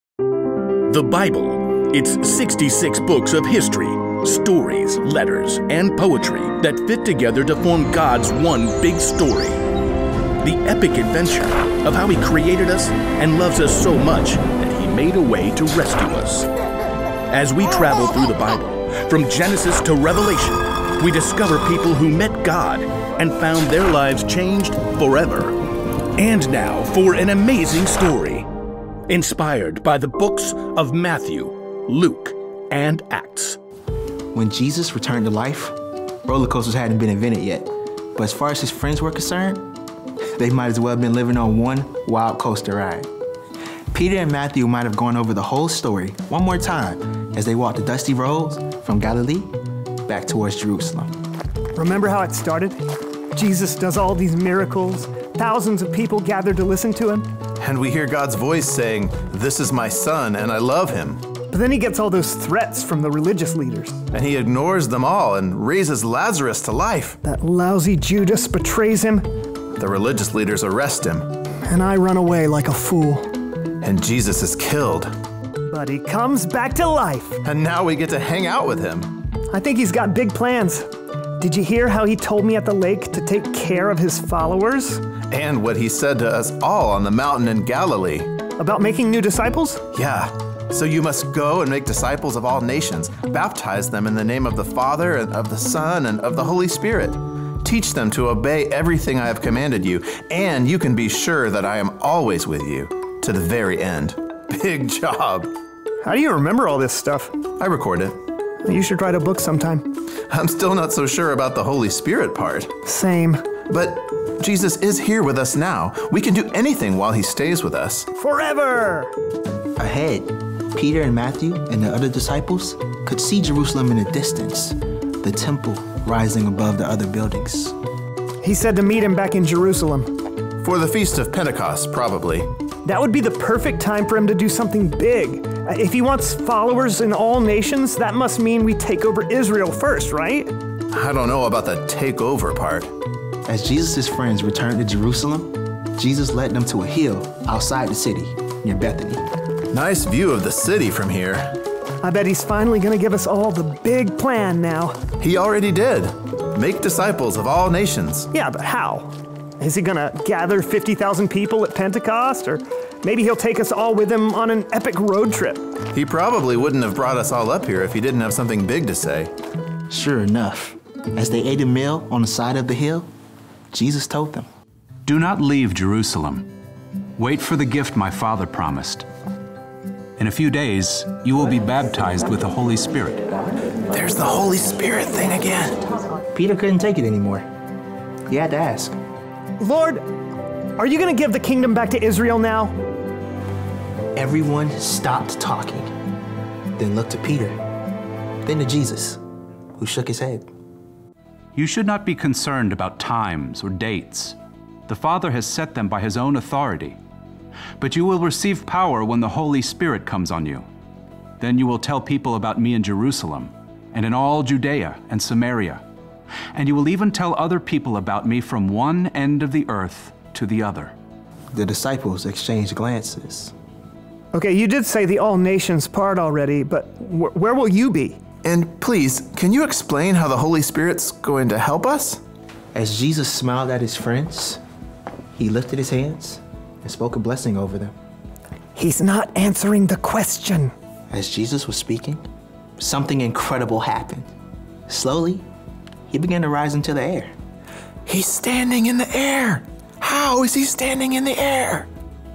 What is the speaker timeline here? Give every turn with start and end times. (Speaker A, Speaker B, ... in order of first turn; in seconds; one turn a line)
Speaker A: 0.9-9.6
Speaker A: 10.4-16.5
Speaker A: 17.3-25.6
Speaker A: 26.2-28.5
Speaker A: 29.1-33.6
Speaker B: 34.3-39.7
Speaker B: 40.4-43.1
Speaker B: 43.9-49.5
Speaker B: 50.0-51.1
Speaker C: 51.8-52.8
Speaker C: 53.3-57.3
Speaker D: 57.6-61.2
Speaker C: 61.5-64.0
Speaker D: 64.1-67.2
Speaker C: 67.2-69.2
Speaker D: 69.8-71.3
Speaker C: 71.7-73.3
Speaker D: 73.8-75.1
Speaker C: 75.7-77.4
Speaker D: 77.4-79.1
Speaker C: 79.5-85.0
Speaker D: 85.3-88.3
Speaker C: 88.6-89.8
Speaker D: 89.9-105.5
Speaker C: 106.0-107.3
Speaker D: 107.6-108.2
Speaker C: 108.6-109.9
Speaker D: 110.3-112.7
Speaker C: 112.8-113.4
Speaker D: 113.7-118.1
Speaker C: 118.2-119.1
Speaker B: 119.8-127.8
Speaker C: 128.4-130.1
Speaker D: 130.6-132.5
Speaker C: 132.8-140.5
Speaker D: 140.9-142.9
Speaker B: 143.4-149.2
Speaker D: 149.7-151.5
Speaker C: 152.0-154.9
Speaker D: 155.2-158.3
Speaker C: 158.3-165.6
Speaker D: 165.9-169.3
Speaker B: 169.9-173.1
Speaker B: 173.7-174.5
Speaker E: 175.0-176.5
Speaker E: 177.2-179.0
Speaker E: 180.2-183.2
Speaker D: 183.9-185.8
Speaker B: 186.3-187.5
Speaker B: 188.3-189.0
Speaker C: 189.6-190.0
Speaker C: 190.8-192.7
Speaker B: 194.1-195.9
Speaker B: 196.8-197.6
Speaker B: 198.4-199.2
Speaker B: 199.8-200.5
Speaker E: 201.5-204.4
Speaker E: 204.9-207.0
Speaker E: 207.8-210.7
Speaker E: 211.4-215.8
Speaker E: 216.5-220.9
Speaker B: 221.5-223.5
Speaker C: 224.3-228.2
Speaker D: 228.4-232.2
Speaker B: 232.7-234.6
Speaker B: 235.3-237.9
Speaker C: 238.7-240.7
Speaker B: 241.1-242.2
Speaker B: 242.8-244.3
Speaker B: 244.9-245.4
Speaker B: 246.1-247.3
Speaker D: 248.1-251.9